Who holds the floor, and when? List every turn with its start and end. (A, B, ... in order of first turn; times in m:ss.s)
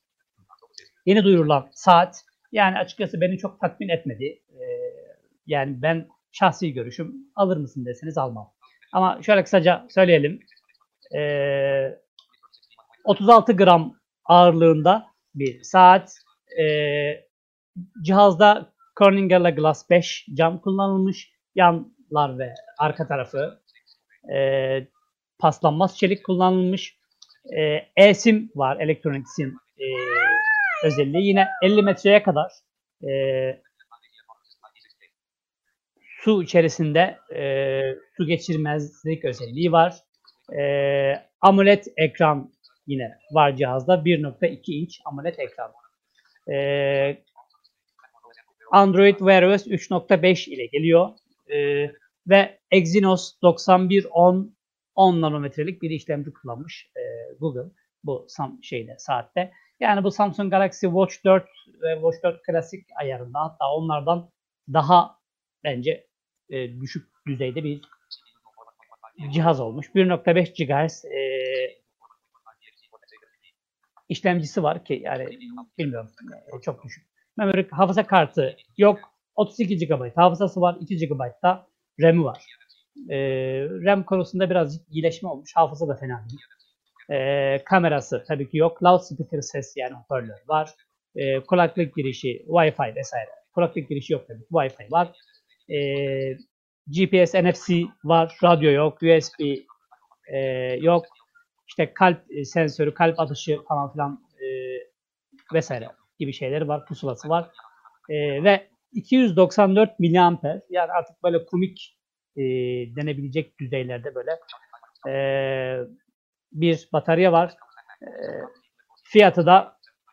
0:01.1-0:10.4 A
0:11.1-0:12.0 A
0:13.0-0:17.2 A
0:18.0-0:23.6 A
0:24.3-0:24.9 A
0:25.4-0:27.0 A
0:27.5-0:33.6 A
0:36.1-0:45.7 A
0:46.5-0:47.2 A
0:48.7-1:07.9 A
1:09.2-1:11.8 A
1:14.1-1:22.5 A
1:23.1-1:26.4 A
1:27.1-1:35.1 A
1:35.7-1:39.6 A
1:40.3-1:41.1 A
1:41.7-1:44.9 A
1:45.5-1:47.5 A
1:48.1-1:54.4 A
1:55.0-1:55.9 A
1:56.5-1:58.5 A
1:59.1-1:59.7 A